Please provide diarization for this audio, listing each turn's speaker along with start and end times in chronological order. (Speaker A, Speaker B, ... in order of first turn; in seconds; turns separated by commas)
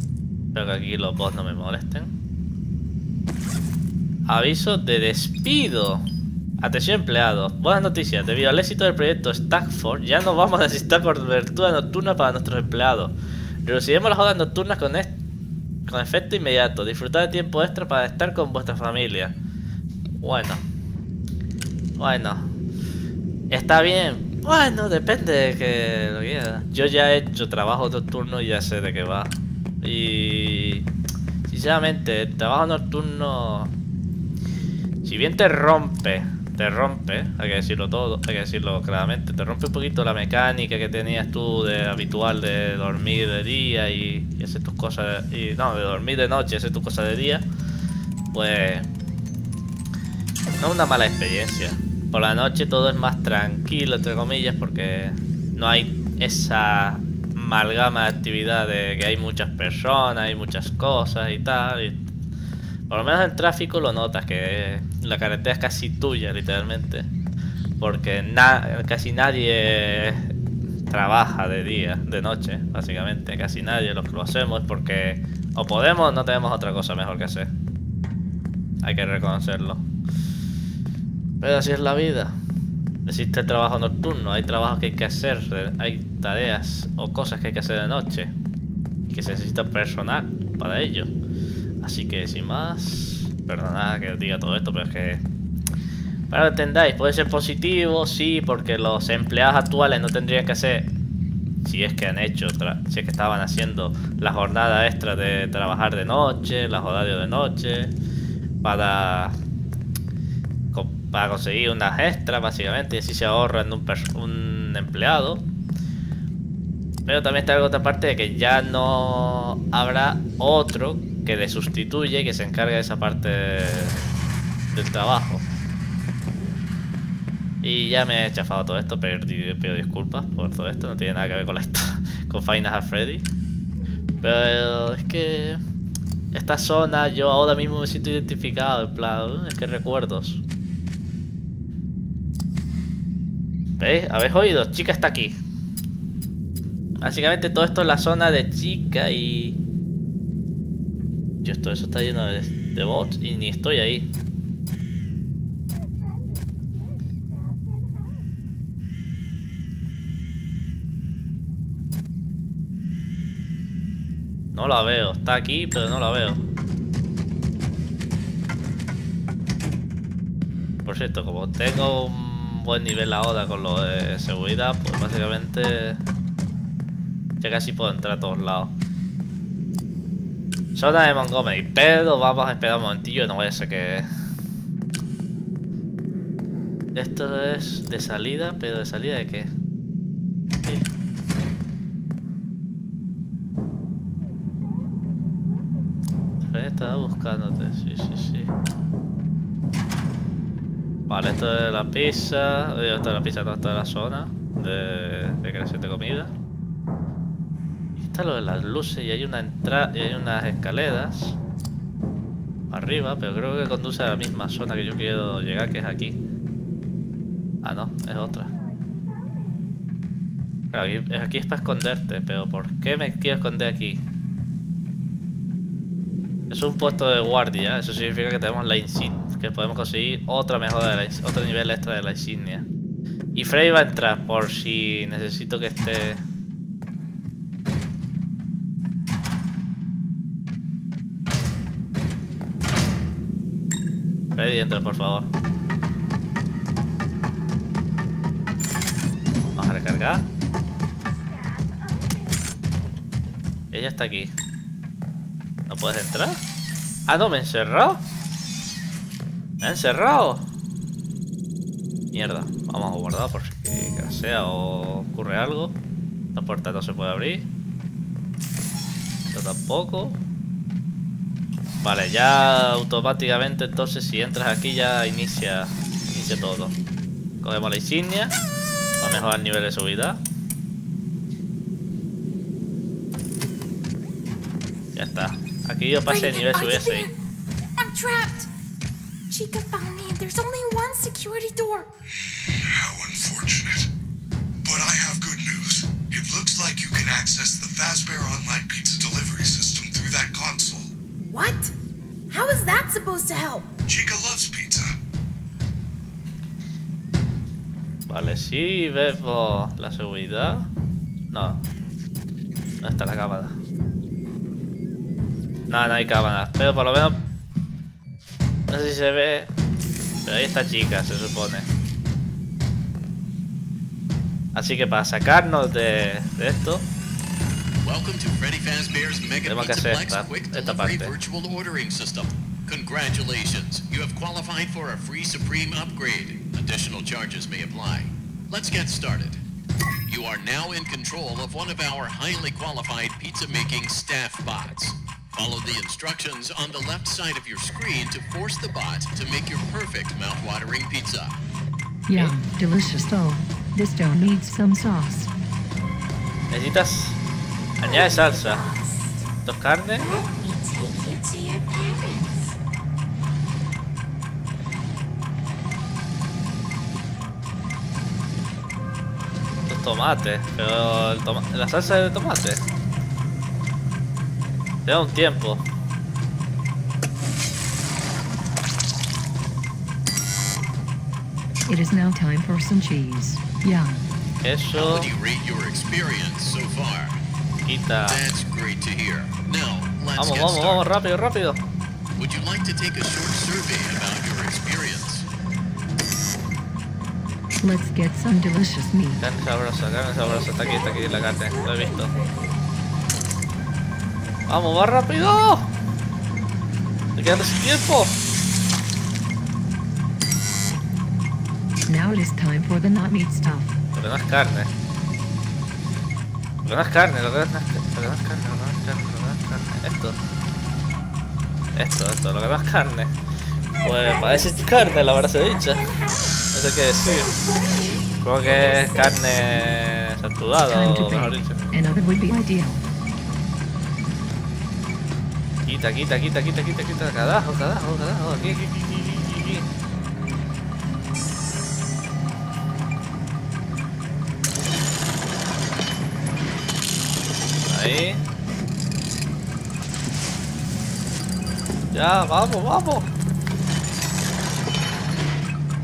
Speaker A: 0.5-2.1, Speaker A: 4.3-6.0, Speaker A: 6.6-13.1, Speaker A: 13.6-15.1, Speaker A: 15.9-19.3, Speaker A: 20.2-20.6, Speaker A: 22.0-22.5, Speaker A: 23.5-30.8, Speaker A: 31.5-33.7, Speaker A: 35.0-47.4, Speaker A: 48.3-48.9, Speaker A: 50.6-62.0, Speaker A: 62.9-67.1, Speaker A: 67.8-70.3, Speaker A: 70.9-77.5, Speaker A: 78.8-79.8, Speaker A: 81.4-82.3, Speaker A: 83.0-88.3, Speaker A: 89.1-91.1, Speaker A: 91.8-95.2, Speaker A: 96.3-100.9, Speaker A: 101.6-107.9, Speaker A: 108.6-109.3, Speaker A: 110.7-115.4, Speaker A: 117.1-124.0, Speaker A: 124.7-125.4, Speaker A: 127.6-133.2, Speaker A: 134.2-135.6, Speaker A: 136.3-140.4, Speaker A: 143.8-145.3, Speaker A: 147.0-149.6, Speaker A: 151.4-154.1, Speaker A: 164.5-166.4, Speaker A: 170.8-176.0, Speaker A: 177.4-178.7, Speaker A: 180.7-184.1, Speaker A: 186.9-189.5, Speaker A: 196.4-198.5, Speaker A: 201.1-206.3, Speaker A: 208.0-211.4, Speaker A: 212.7-216.2, Speaker A: 217.6-218.5, Speaker A: 220.7-224.0, Speaker A: 226.5-232.7, Speaker A: 233.3-236.2, Speaker A: 244.3-245.3, Speaker A: 249.6-250.2, Speaker A: 253.7-254.3, Speaker A: 255.7-256.4, Speaker A: 257.1-258.0, Speaker A: 259.6-260.4, Speaker A: 262.1-265.8, Speaker A: 266.3-267.4, Speaker A: 269.3-270.2, Speaker A: 271.8-276.7, Speaker A: 277.4-278.3, Speaker A: 279.0-280.2, Speaker A: 284.9-287.1, Speaker B: 286.0-287.1, Speaker B: 287.8-288.5, Speaker B: 289.3-291.9, Speaker C: 292.1-293.9, Speaker C: 294.6-300.9, Speaker B: 301.3-301.7, Speaker B: 302.3-303.7, Speaker C: 303.9-304.9, Speaker A: 308.1-310.7, Speaker A: 311.3-311.6, Speaker A: 312.8-313.5, Speaker A: 315.7-317.1, Speaker A: 318.7-319.5, Speaker A: 320.2-321.6, Speaker A: 324.5-326.8, Speaker D: 327.8-339.4, Speaker A: 329.5-331.1, Speaker D: 340.1-351.4, Speaker E: 352.1-355.3, Speaker A: 356.5-357.2, Speaker A: 357.8-358.6, Speaker B: 357.8-359.2, Speaker A: 359.4-360.1, Speaker B: 360.0-362.5, Speaker A: 369.7-372.6, Speaker A: 374.9-375.6, Speaker E: 381.7-384.0, Speaker A: 384.4-385.1, Speaker D: 384.7-387.2, Speaker A: 387.6-388.2, Speaker D: 388.1-390.8, Speaker A: 390.2-391.6, Speaker D: 392.2-395.2, Speaker E: 397.6-399.2, Speaker A: 399.2-402.1, Speaker A: 404.5-405.7, Speaker A: 407.1-408.1, Speaker E: 411.9-413.7, Speaker A: 413.9-414.7, Speaker A: 416.6-420.2, Speaker A: 421.8-423.1, Speaker A: 423.8-425.9, Speaker A: 426.5-427.4, Speaker A: 428.2-431.6, Speaker E: 430.7-432.8, Speaker A: 435.7-439.6, Speaker A: 447.7-448.2, Speaker A: 451.9-453.1